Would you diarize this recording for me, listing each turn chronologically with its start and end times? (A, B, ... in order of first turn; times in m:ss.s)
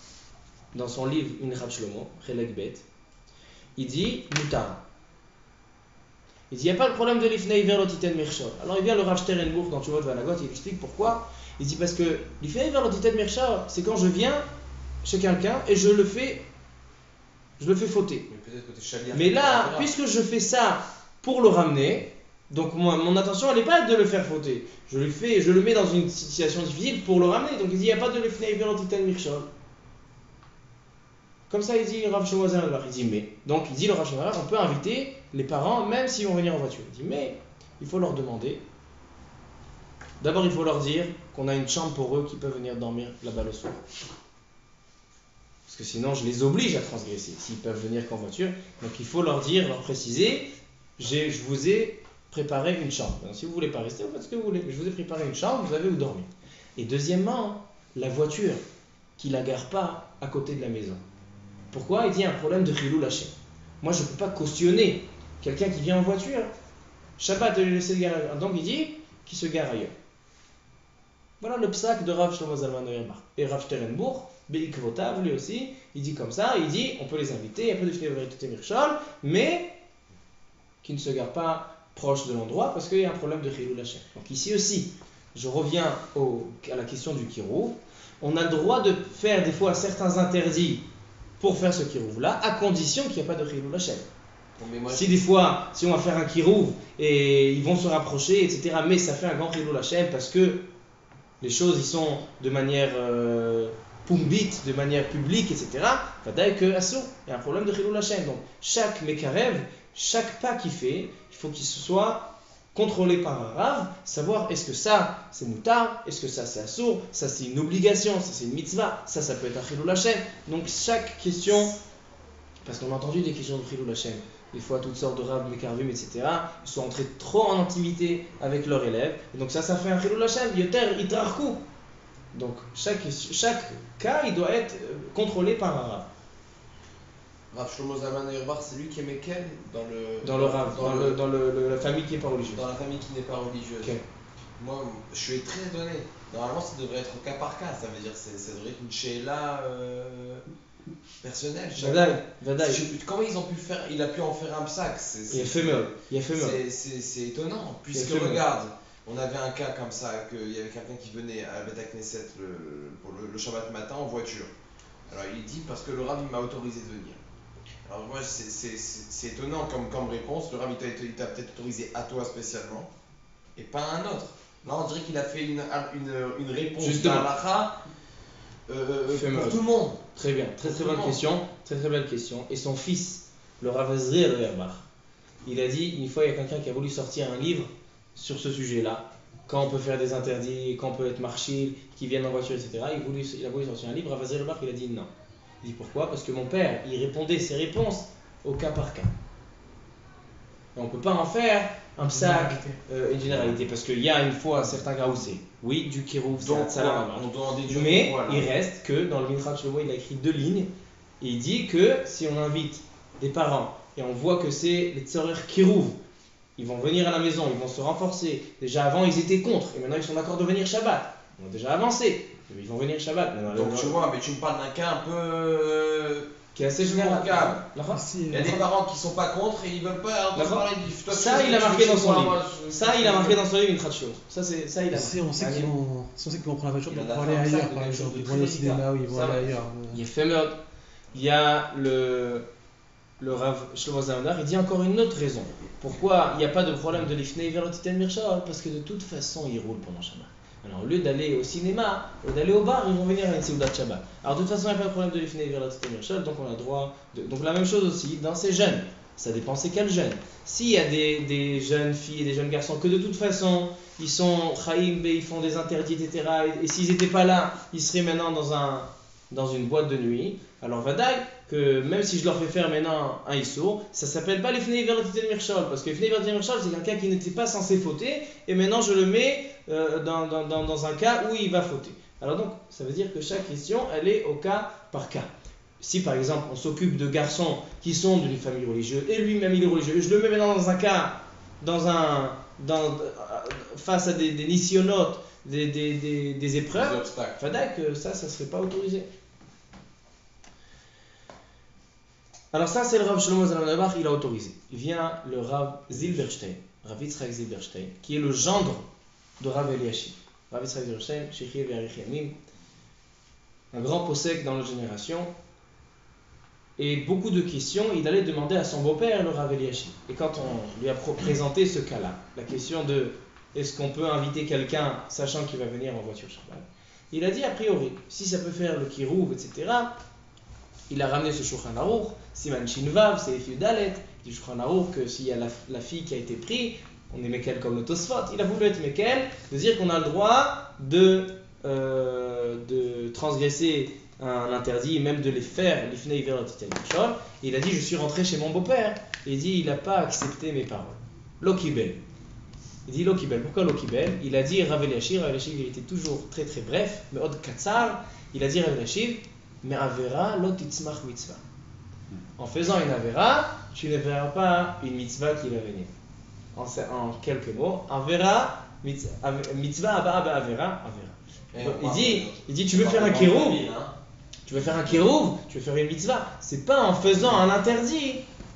0:00.7-0:02.8 A
0:03.8-0:04.8 A
0:06.5-0:14.4 A
0:15.0-0:16.4 A
0:17.6-0:18.3 A
0:18.3-0:19.9 B
0:19.1-0:29.5 A
0:31.5-0:38.6 A
0:40.2-0:43.8 A
0:45.7-0:58.6 A
0:59.2-1:01.0 A
1:01.7-1:06.5 A
1:07.2-1:09.9 A
1:11.4-1:19.7 A
1:20.8-1:30.8 A
1:31.4-1:34.1 A
1:34.6-1:35.2 B
1:34.9-1:40.7 A
1:41.4-2:01.7 A
2:02.6-2:11.6 A
2:12.3-2:16.1 A
2:17.5-2:21.2 B
2:20.2-2:22.7 A
2:22.5-2:24.0 B
2:24.6-2:30.4 B
2:31.2-2:44.5 B
2:31.8-2:32.9 A
2:35.3-2:36.6 A
2:37.9-2:38.4 A
2:45.1-2:47.2 B
2:47.8-2:52.9 B
2:53.6-2:57.8 B
2:56.8-2:57.3 A
2:58.7-3:00.0 B
2:59.1-2:59.6 A
3:00.1-3:04.8 A
3:00.6-3:01.2 B
3:05.4-3:15.1 A
3:15.6-3:19.1 A
3:20.7-3:30.7 A
3:26.4-3:28.5 B
3:31.2-3:36.0 A
3:36.6-3:44.0 A
3:43.5-3:47.6 B
3:46.5-3:48.5 A
3:47.9-3:48.6 C
3:48.3-3:53.4 B
3:50.3-3:55.7 A
3:54.9-4:00.0 C
3:56.9-3:59.5 B
3:59.1-4:00.6 A
4:01.1-4:02.4 A
4:03.2-4:59.1 A
4:56.7-4:57.4 B
5:02.5-5:08.9 A
5:09.4-5:12.4 A
5:13.7-5:15.3 A
5:16.8-5:29.9 A
5:30.9-5:52.0 A
5:52.8-6:01.4 A
6:02.4-6:05.9 A
6:06.5-6:13.7 A
6:11.5-6:13.9 B
6:14.4-6:18.2 A